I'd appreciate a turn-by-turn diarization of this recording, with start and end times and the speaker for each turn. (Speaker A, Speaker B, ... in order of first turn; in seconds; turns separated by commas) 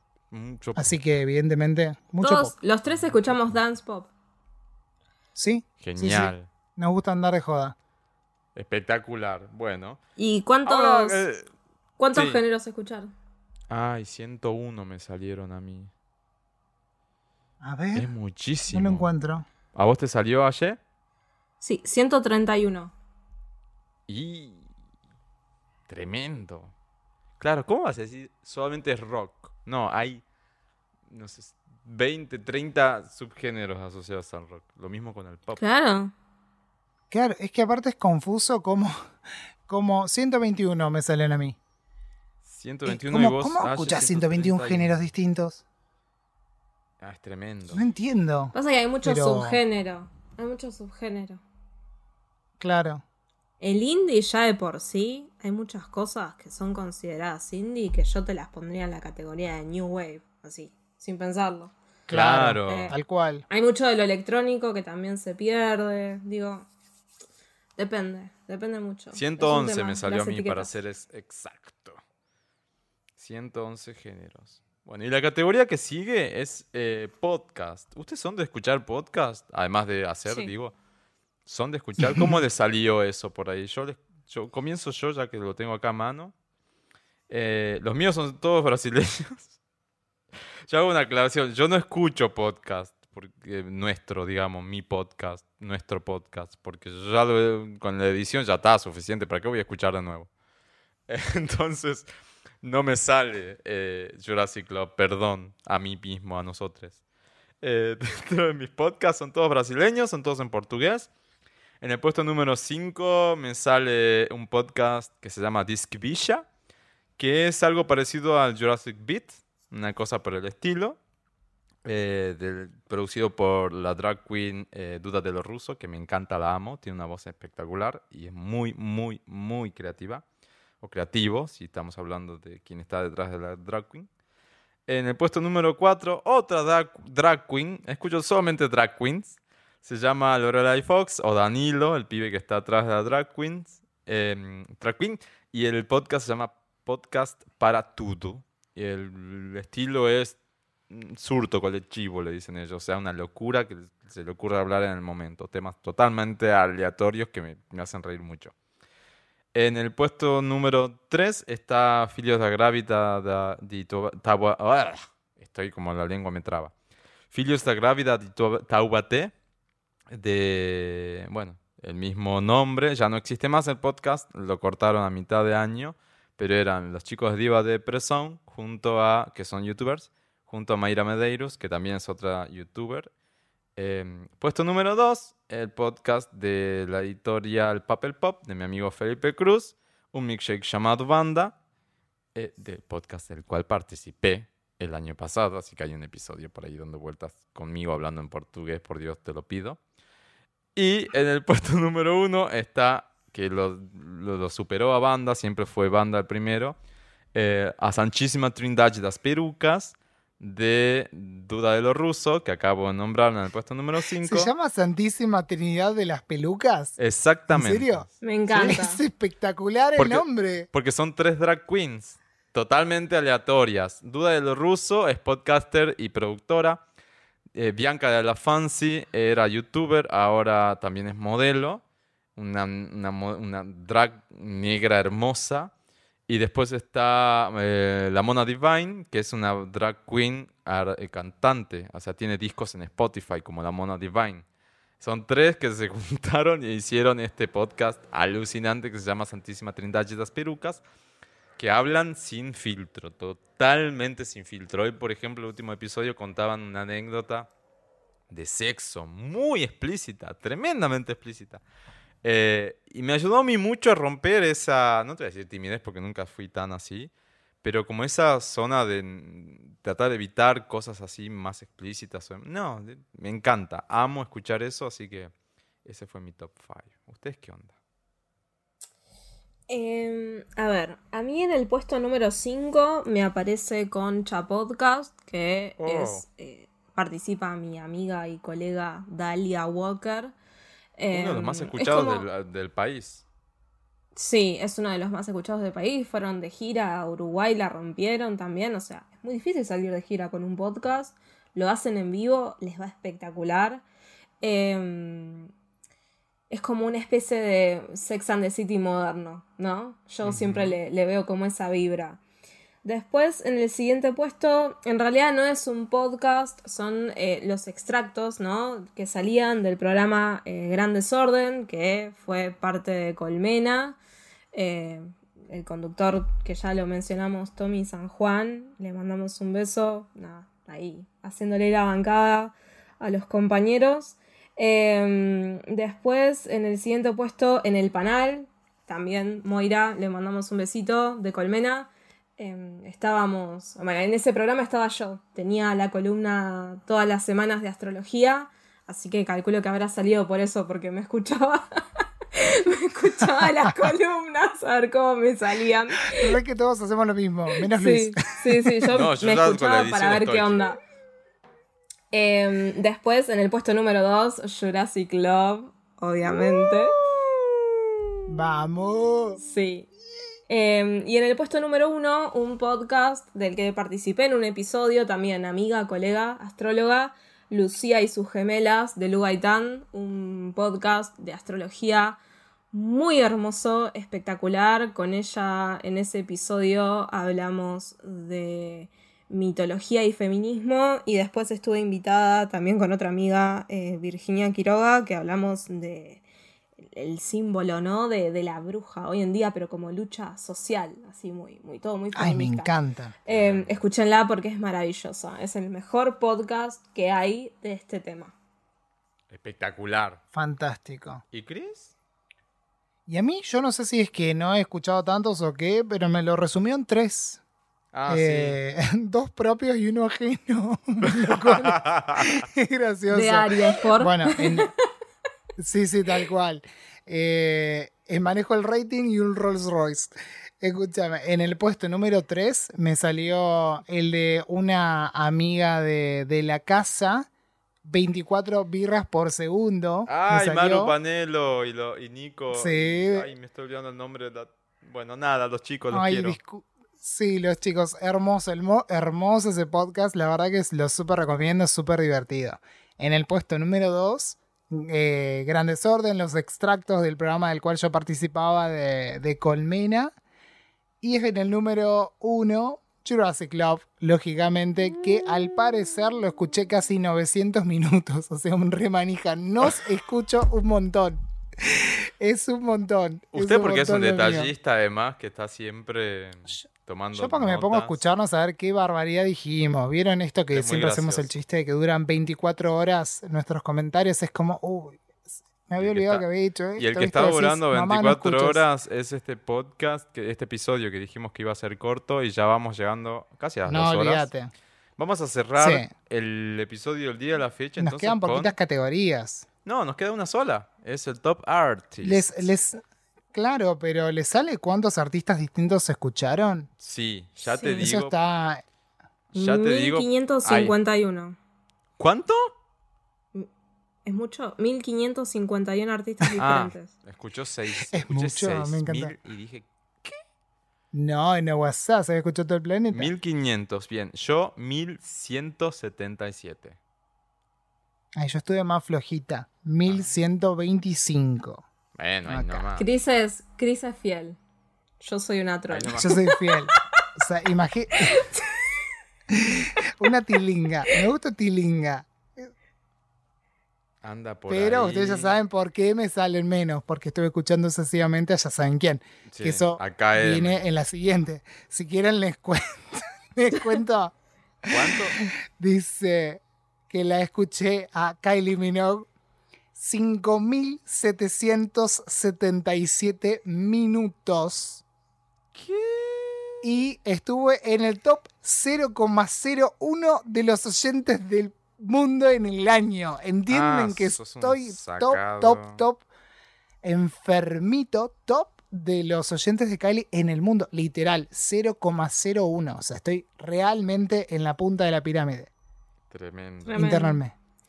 Speaker A: 0.3-0.9, Speaker B: 0.8-2.5, Speaker C: 2.2-4.1, Speaker B: 5.3-7.8, Speaker A: 5.8-6.5, Speaker A: 8.6-10.0, Speaker C: 10.2-11.2, Speaker A: 10.7-11.5, Speaker C: 12.0-13.1, Speaker A: 12.1-12.4, Speaker A: 13.7-15.9, Speaker B: 17.6-18.1, Speaker A: 17.9-19.1, Speaker B: 18.7-19.5, Speaker A: 19.7-20.8, Speaker C: 21.6-22.9, Speaker A: 24.1-24.7, Speaker A: 25.9-26.7, Speaker A: 27.4-30.2, Speaker A: 31.1-35.6, Speaker C: 35.6-36.1, Speaker B: 37.1-39.1, Speaker B: 39.7-41.6, Speaker A: 42.4-45.0, Speaker B: 42.9-45.6, Speaker A: 47.0-47.9, Speaker B: 47.7-49.6, Speaker C: 48.5-51.4, Speaker B: 52.6-53.0, Speaker C: 53.6-61.7, Speaker B: 62.1-63.5, Speaker A: 62.1-62.9, Speaker C: 62.7-63.0, Speaker C: 63.5-66.7, Speaker C: 67.8-70.8, Speaker A: 69.1-72.0, Speaker A: 73.2-80.7, Speaker A: 81.5-86.3, Speaker B: 82.0-82.3, Speaker A: 87.3-89.5, Speaker A: 90.7-100.3, Speaker A: 101.1-102.1, Speaker A: 102.6-107.0, Speaker A: 107.6-111.1, Speaker A: 111.8-116.5, Speaker A: 117.2-121.0, Speaker A: 121.8-130.2, Speaker A: 130.8-134.1, Speaker A: 134.9-150.4, Speaker A: 150.9-158.5, Speaker A: 159.5-166.7, Speaker A: 167.3-169.3, Speaker A: 170.1-183.1, Speaker A: 183.8-191.6, Speaker A: 192.3-199.8, Speaker A: 200.8-206.8, Speaker A: 207.3-214.5, Speaker B: 214.2-217.0, Speaker A: 217.0-218.1, Speaker B: 217.5-220.7, Speaker C: 218.2-219.0, Speaker A: 220.0-226.8, Speaker A: 227.6-231.8, Speaker A: 232.4-235.7, Speaker A: 236.3-244.4, Speaker A: 245.0-250.8, Speaker A: 251.6-257.5, Speaker A: 258.3-261.6, Speaker A: 262.2-267.1, Speaker A: 267.6-275.3, Speaker A: 275.9-277.7, Speaker C: 279.7-290.3, Speaker A: 285.8-286.2, Speaker C: 291.0-292.3, Speaker A: 291.1-293.2, Speaker C: 294.2-303.8, Speaker C: 304.4-305.5, Speaker C: 306.5-312.2, Speaker A: 310.2-310.8, Speaker C: 312.8-324.0, Speaker C: 324.5-351.8, Speaker C: 352.3-356.3, Speaker B: 353.2-353.9, Speaker B: 356.1-358.8, Speaker C: 357.7-360.8, Speaker A: 358.9-360.7, Speaker C: 362.1-367.0, Speaker B: 368.3-369.4, Speaker C: 369.4-369.9, Speaker C: 370.5-382.2, Speaker C: 382.7-396.2, Speaker C: 396.8-402.7, Speaker B: 402.1-403.1, Speaker C: 403.2-408.3, Speaker A: 403.3-403.8, Speaker A: 409.3-410.2, Speaker B: 410.3-411.2, Speaker A: 411.3-411.9, Speaker B: 413.1-417.4, Speaker A: 417.9-418.6, Speaker B: 418.1-424.7, Speaker A: 421.2-422.4, Speaker C: 423.1-424.7, Speaker B: 425.6-437.3, Speaker B: 437.9-440.9, Speaker A: 440.1-446.4, Speaker B: 442.5-443.3, Speaker B: 445.9-460.1, Speaker B: 461.0-474.5, Speaker A: 473.3-478.0, Speaker B: 477.1-485.1, Speaker A: 480.5-481.3, Speaker B: 485.7-488.6, Speaker A: 485.8-486.2, Speaker A: 486.8-494.3, Speaker B: 493.7-494.5, Speaker A: 495.0-498.5, Speaker B: 495.6-495.9, Speaker B: 497.8-499.5, Speaker A: 499.6-502.5, Speaker B: 502.0-502.8, Speaker B: 503.3-506.7, Speaker A: 506.8-508.2, Speaker C: 507.5-507.9, Speaker B: 507.8-508.6, Speaker A: 509.3-510.7, Speaker C: 509.3-511.4, Speaker A: 512.0-512.5, Speaker C: 514.0-516.9, Speaker A: 516.4-520.2, Speaker B: 517.9-519.1, Speaker B: 520.9-523.1, Speaker A: 522.9-526.8, Speaker B: 528.1-531.6, Speaker A: 529.9-530.1, Speaker A: 532.0-532.9, Speaker B: 532.3-532.6, Speaker C: 532.8-534.4, Speaker C: 535.0-536.6, Speaker A: 535.7-536.2, Speaker B: 536.0-538.2, Speaker C: 538.0-538.6, Speaker B: 539.3-542.5, Speaker A: 544.0-545.4, Speaker B: 544.5-554.1, Speaker A: 549.3-550.6, Speaker A: 554.7-555.2, Speaker B: 554.7-559.1, Speaker B: 559.8-564.8, Speaker A: 565.5-566.6, Speaker B: 566.6-576.0, Speaker A: 573.5-575.8, Speaker B: 576.8-585.5, Speaker A: 586.1-586.8, Speaker C: 586.7-587.2, Speaker B: 586.7-587.3